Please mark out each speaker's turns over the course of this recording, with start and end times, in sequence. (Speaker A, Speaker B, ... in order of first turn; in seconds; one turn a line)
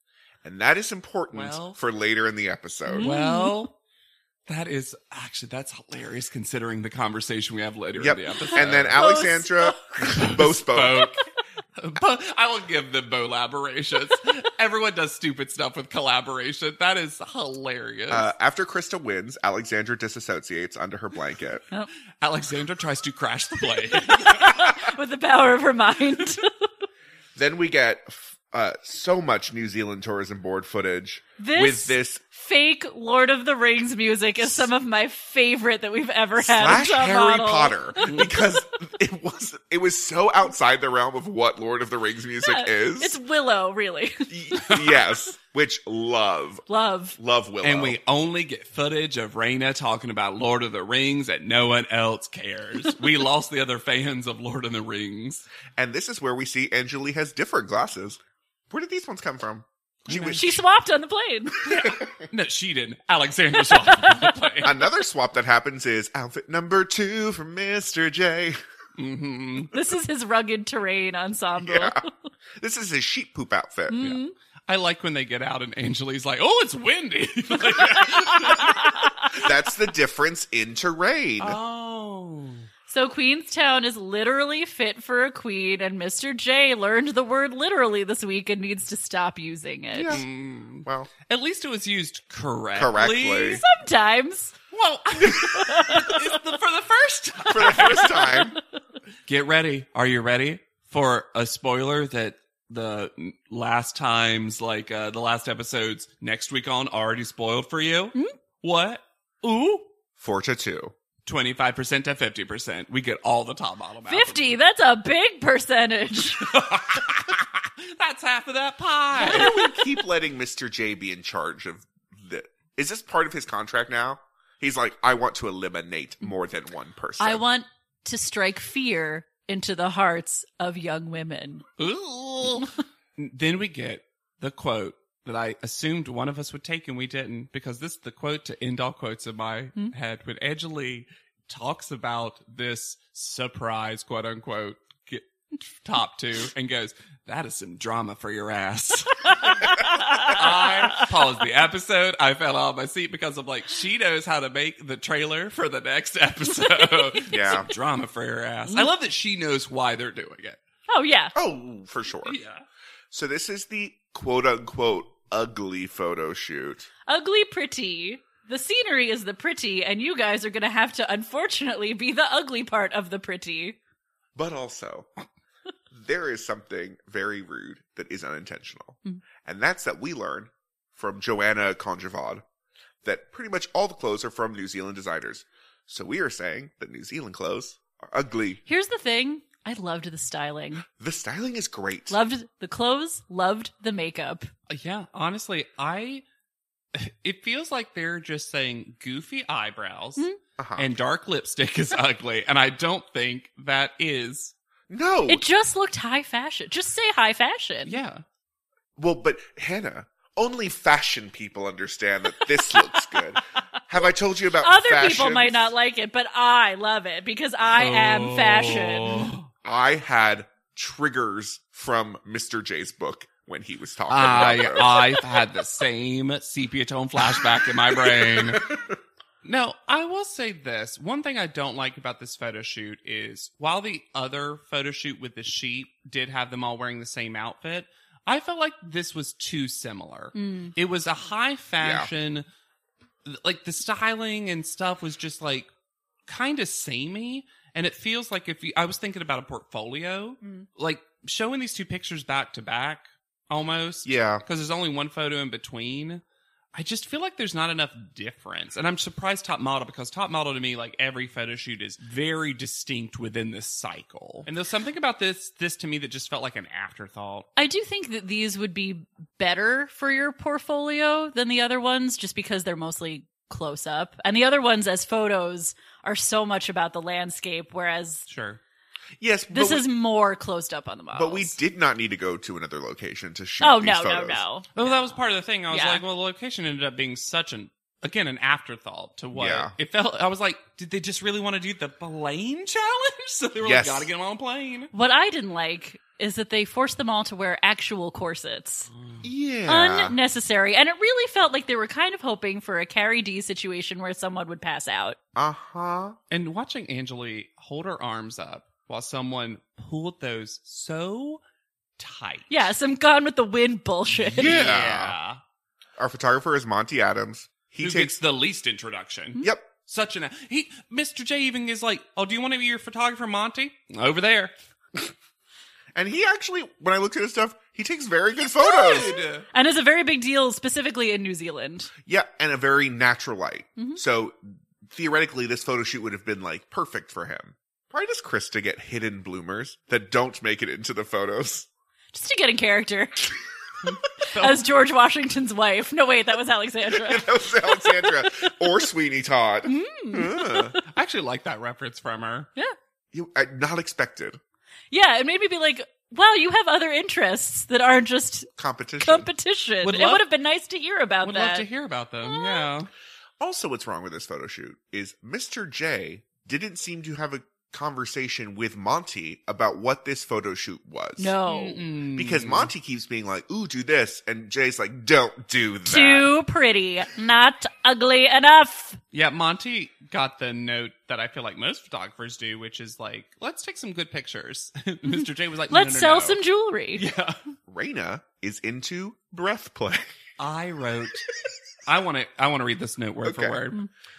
Speaker A: 0.4-3.1
Speaker B: 1.3-1.8
Speaker C: 2.9-3.5
Speaker B: 3.0-3.7
Speaker B: 4.5-9.0
Speaker A: 8.0-11.1
Speaker C: 8.9-10.2
Speaker B: 10.0-11.2
Speaker B: 11.8-18.3
Speaker A: 18.1-21.6
Speaker B: 22.2-24.6
Speaker C: 24.0-26.5
Speaker A: 27.3-32.2
Speaker C: 31.4-38.2
Speaker A: 36.4-43.2
Speaker B: 38.0-38.3
Speaker C: 42.4-44.8
Speaker A: 44.3-48.0
Speaker C: 46.7-47.2
Speaker B: 47.6-55.5
Speaker A: 55.8-58.2
Speaker A: 58.7-60.6
Speaker B: 60.1-60.4
Speaker C: 60.3-61.6
Speaker B: 61.6-64.8
Speaker A: 61.8-62.2
Speaker C: 63.6-64.3
Speaker A: 64.6-68.6
Speaker B: 69.0-69.7
Speaker C: 69.7-72.1
Speaker A: 71.6-72.0
Speaker A: 72.6-74.2
Speaker C: 73.9-74.3
Speaker B: 74.0-79.5
Speaker C: 78.3-79.3
Speaker A: 79.3-81.6
Speaker B: 81.4-82.7
Speaker C: 82.9-90.2
Speaker A: 89.9-90.2
Speaker B: 90.1-93.6
Speaker A: 90.8-91.1
Speaker A: 92.7-93.6
Speaker C: 93.5-94.5
Speaker B: 94.7-98.4
Speaker C: 95.3-96.2
Speaker A: 97.5-98.6
Speaker C: 97.8-98.5
Speaker B: 99.3-109.8
Speaker A: 110.2-110.9
Speaker B: 111.2-114.5
Speaker C: 114.0-116.4
Speaker B: 116.4-119.8
Speaker A: 119.1-127.4
Speaker C: 119.2-119.8
Speaker C: 127.2-131.6
Speaker B: 131.8-160.6
Speaker C: 149.4-150.4
Speaker A: 157.3-157.7
Speaker C: 160.9-161.3
Speaker A: 161.3-162.4
Speaker B: 162.2-162.6
Speaker A: 163.1-166.9
Speaker C: 167.1-173.8
Speaker A: 174.3-175.1
Speaker A: 175.9-182.4
Speaker A: 183.0-188.6
Speaker C: 188.6-190.8
Speaker A: 190.9-192.2
Speaker C: 192.1-194.5
Speaker B: 194.7-196.2
Speaker B: 196.9-200.2
Speaker A: 200.6-200.9
Speaker B: 200.8-204.5
Speaker A: 204.9-205.4
Speaker C: 205.3-208.0
Speaker B: 207.9-208.2
Speaker A: 209.0-215.7
Speaker C: 214.6-219.3
Speaker B: 217.7-219.5
Speaker A: 219.6-225.4
Speaker B: 224.1-228.7
Speaker A: 227.4-228.9
Speaker B: 229.4-242.4
Speaker C: 240.3-240.7
Speaker A: 241.8-242.1
Speaker B: 243.2-245.7
Speaker B: 246.3-256.2
Speaker A: 254.0-254.4
Speaker B: 256.7-267.5
Speaker C: 267.6-278.3
Speaker B: 278.3-278.6
Speaker A: 279.2-279.9
Speaker C: 279.5-281.6
Speaker A: 281.1-284.4
Speaker C: 283.6-286.0
Speaker B: 284.7-294.9
Speaker A: 289.3-289.7
Speaker A: 293.6-294.1
Speaker C: 294.9-298.9
Speaker B: 298.9-299.2
Speaker A: 299.2-300.2
Speaker C: 299.7-305.2
Speaker A: 305.3-306.1
Speaker B: 306.3-311.4
Speaker B: 312.0-312.7
Speaker C: 312.5-314.6
Speaker A: 314.2-315.1
Speaker B: 314.4-315.4
Speaker A: 316.0-318.2
Speaker B: 317.8-324.5
Speaker A: 325.9-329.1
Speaker C: 328.6-331.9
Speaker B: 328.8-329.4
Speaker A: 332.0-341.7
Speaker C: 342.1-343.3
Speaker C: 344.2-348.5
Speaker B: 344.3-344.6
Speaker A: 346.9-350.8
Speaker C: 349.6-350.8
Speaker B: 350.8-352.5
Speaker A: 353.1-354.4
Speaker C: 354.9-361.6
Speaker A: 358.6-359.3
Speaker B: 359.8-360.2
Speaker B: 361.2-362.9
Speaker C: 362.2-362.7
Speaker A: 363.4-371.4
Speaker C: 371.2-371.8
Speaker B: 371.4-372.7
Speaker A: 372.1-376.3
Speaker C: 375.9-379.0
Speaker B: 379.1-386.4
Speaker C: 385.1-387.0
Speaker B: 386.9-387.4
Speaker A: 387.7-390.2
Speaker B: 390.4-391.3
Speaker B: 391.9-393.8
Speaker A: 393.2-393.6